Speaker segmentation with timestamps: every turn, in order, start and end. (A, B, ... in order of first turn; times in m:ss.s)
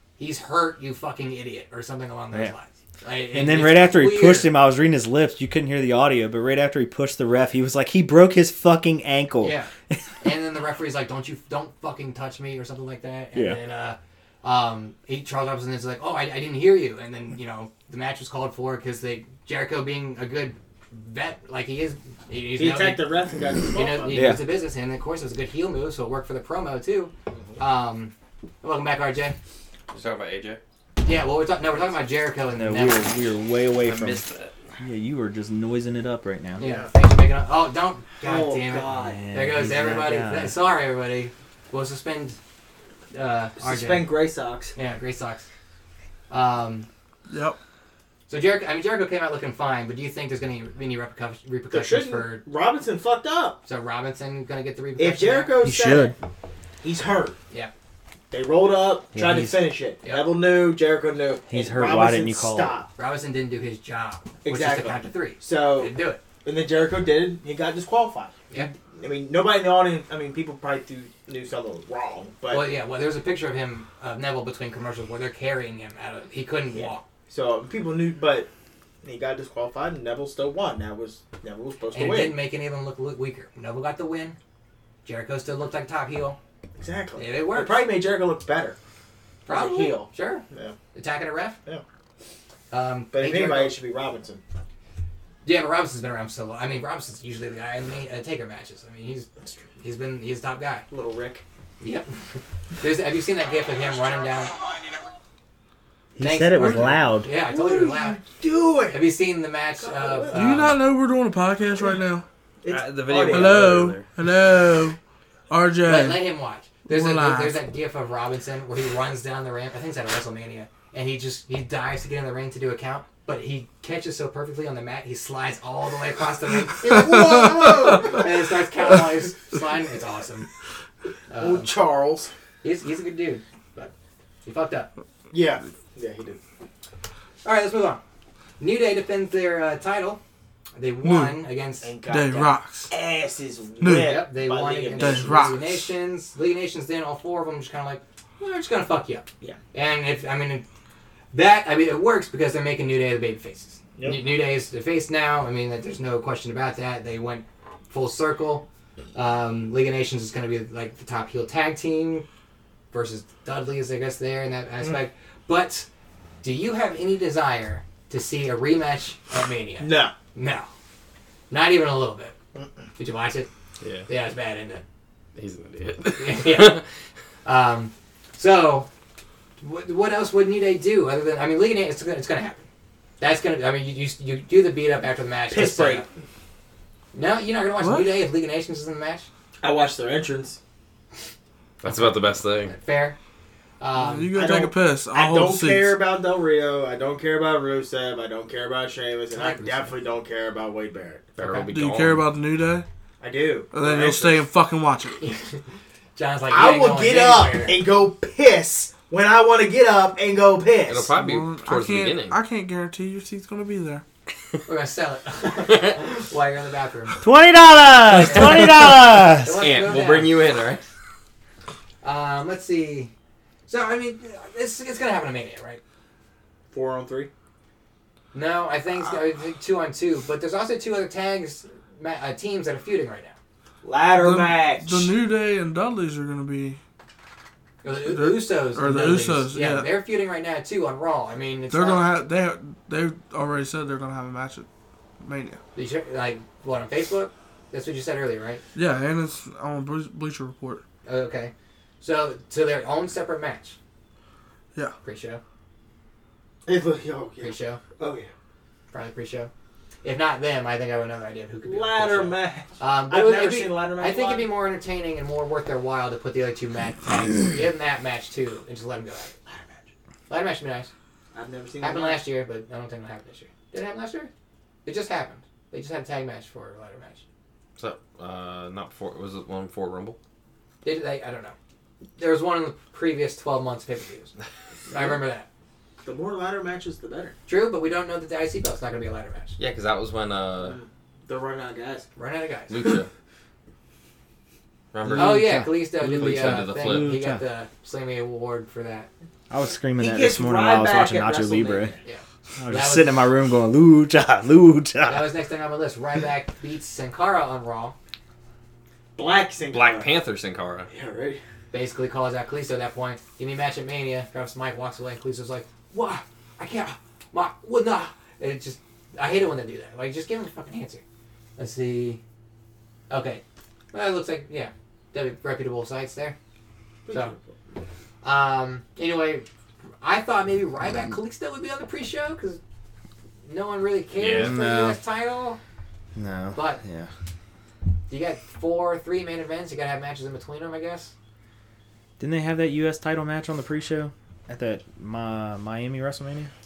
0:00.2-0:04.5 A
0:03.3-0:10.0 B
0:09.4-0:09.7 A
0:10.2-0:23.1 A
0:22.6-0:24.3 C
0:23.7-0:29.4 A
0:24.1-0:24.4 B
0:27.3-0:27.6 C
0:29.9-0:30.6 D
0:31.0-0:33.1 A
0:32.5-0:34.2 B
0:33.8-0:34.6 D
0:34.8-0:36.6 B
0:36.6-0:36.9 C
0:36.6-0:42.4 A
0:38.2-0:39.2 C
0:38.9-0:40.6 B
0:43.1-0:44.1 A
0:43.6-0:44.8 C
0:44.8-0:45.5 A
0:46.3-0:46.9 A
0:47.3-0:47.6 E
0:48.3-0:52.4 A
0:51.7-0:53.6 C
0:53.6-0:55.6 A
0:55.0-0:56.2 C
0:55.6-0:56.2 B
0:56.8-0:57.4 C
0:58.3-1:02.9 C
0:59.1-0:59.6 B
1:00.0-1:00.3 A
1:01.5-1:02.8 B
1:03.0-1:06.2 A
1:04.4-1:08.4 C
1:08.9-1:12.7 C
1:12.5-1:17.0 A
1:16.7-1:18.5 C
1:19.0-1:22.4 C
1:21.9-1:24.4 A
1:25.0-1:26.4 A
1:26.8-1:28.8 C
1:27.2-1:27.8 A
1:29.5-1:30.8 C
1:29.5-1:31.6 A
1:32.7-1:33.8 A
1:33.1-1:34.4 C
1:35.4-1:40.9 A
1:39.4-1:39.7 C
1:40.9-1:41.4 C
1:41.8-1:42.1 A
1:42.8-1:44.5 A
1:46.2-1:47.3 B
1:46.2-1:48.2 A
1:47.3-1:49.0 C
1:48.9-1:50.8 A
1:49.8-1:50.7 C
1:50.3-1:52.3 E
1:52.6-1:54.0 C
1:52.7-1:54.1 D
1:53.3-1:55.0 E
1:55.5-1:56.2 E
1:55.8-2:07.3 A
1:56.9-1:57.6 E
2:06.8-2:08.3 C
2:07.0-2:08.0 E
2:08.0-2:10.5 A
2:11.3-2:11.7 A
2:11.4-2:12.3 C
2:12.6-2:13.9 A
2:14.4-2:14.9 A
2:15.3-2:16.4 C
2:17.4-2:18.0 A
2:18.6-2:20.2 A
2:20.8-2:21.9 A
2:21.0-2:21.4 E
2:21.8-2:25.6 C
2:22.1-2:22.9 E
2:23.8-2:24.2 E
2:23.9-2:30.6 A
2:25.0-2:25.9 E
2:31.3-2:42.3 A
2:42.9-2:45.9 A
2:46.4-2:50.7 A
2:49.8-2:50.1 C
2:51.5-2:52.4 A
2:52.6-2:52.9 C
2:53.0-2:53.5 A
2:53.8-2:54.1 D
2:54.1-2:54.8 A
2:55.4-2:56.8 D
2:56.2-2:56.8 A
2:57.4-2:58.9 A
2:59.6-3:02.7 A
3:03.2-3:06.1 A
3:05.5-3:06.1 C
3:07.1-3:09.3 A
3:07.8-3:08.1 E
3:09.6-3:10.6 C
3:11.8-3:12.8 D
3:11.8-3:13.2 A
3:13.8-3:14.4 A
3:14.0-3:16.0 E
3:14.3-3:21.3 C
3:19.3-3:20.0 A
3:21.4-3:22.3 D
3:21.4-3:21.7 A
3:21.7-3:22.9 E
3:23.2-3:24.5 C
3:23.7-3:25.2 E
3:25.2-3:25.6 A
3:26.2-3:27.8 A
3:26.5-3:31.1 C
3:30.9-3:32.4 D
3:31.2-3:34.0 E
3:34.7-3:37.2 A
3:35.7-3:35.9 D
3:37.2-3:39.6 B
3:38.2-3:38.8 A
3:39.3-3:40.4 A
3:39.5-3:40.8 D
3:42.0-3:43.1 A
3:43.7-3:45.8 A
3:46.7-3:47.3 C
3:48.3-3:53.4 A
3:53.8-3:55.2 C
3:54.2-3:56.8 E
3:57.8-4:02.1 A
3:58.0-3:59.9 E
4:01.7-4:04.7 E
4:05.2-4:05.6 E
4:05.8-4:08.6 A
4:08.8-4:10.8 E
4:11.1-4:13.8 A
4:15.0-4:15.4 A
4:16.7-4:18.3 C
4:17.4-4:17.8 A
4:18.9-4:19.5 A
4:20.0-4:29.4 A
4:21.6-4:24.5 C
4:29.5-4:29.9 C
4:30.3-4:30.9 A
4:31.3-4:32.2 C
4:31.8-4:34.3 A
4:34.8-4:37.2 A
4:37.8-4:40.2 D
4:40.8-4:41.6 A
4:42.2-4:44.3 A
4:44.9-4:45.2 C
4:44.9-4:45.5 A
4:46.0-4:47.4 C
4:47.5-4:49.6 A
4:49.6-4:50.8 D
4:50.6-4:52.1 C
4:52.2-4:52.8 A
4:52.7-4:53.1 D
4:54.9-4:57.2 D
4:55.1-4:57.4 B
4:55.2-4:59.1 A
4:59.5-5:01.9 B
5:00.0-5:02.0 C
5:02.0-5:03.3 A
5:02.6-5:05.3 B
5:05.1-5:08.0 A
5:09.2-5:10.1 C
5:09.7-5:10.9 D
5:10.9-5:11.4 C
5:11.7-5:21.0 A
5:21.6-5:22.2 A
5:23.1-5:23.4 A
5:23.9-5:26.4 A
5:27.1-5:27.5 C
5:28.2-5:29.5 A
5:30.0-5:32.6 A
5:33.4-5:35.6 A
5:34.2-5:34.6 D
5:34.4-5:35.0 B
5:36.2-5:37.1 B
5:36.6-5:36.8 A
5:38.1-5:41.1 A
5:42.2-5:46.5 B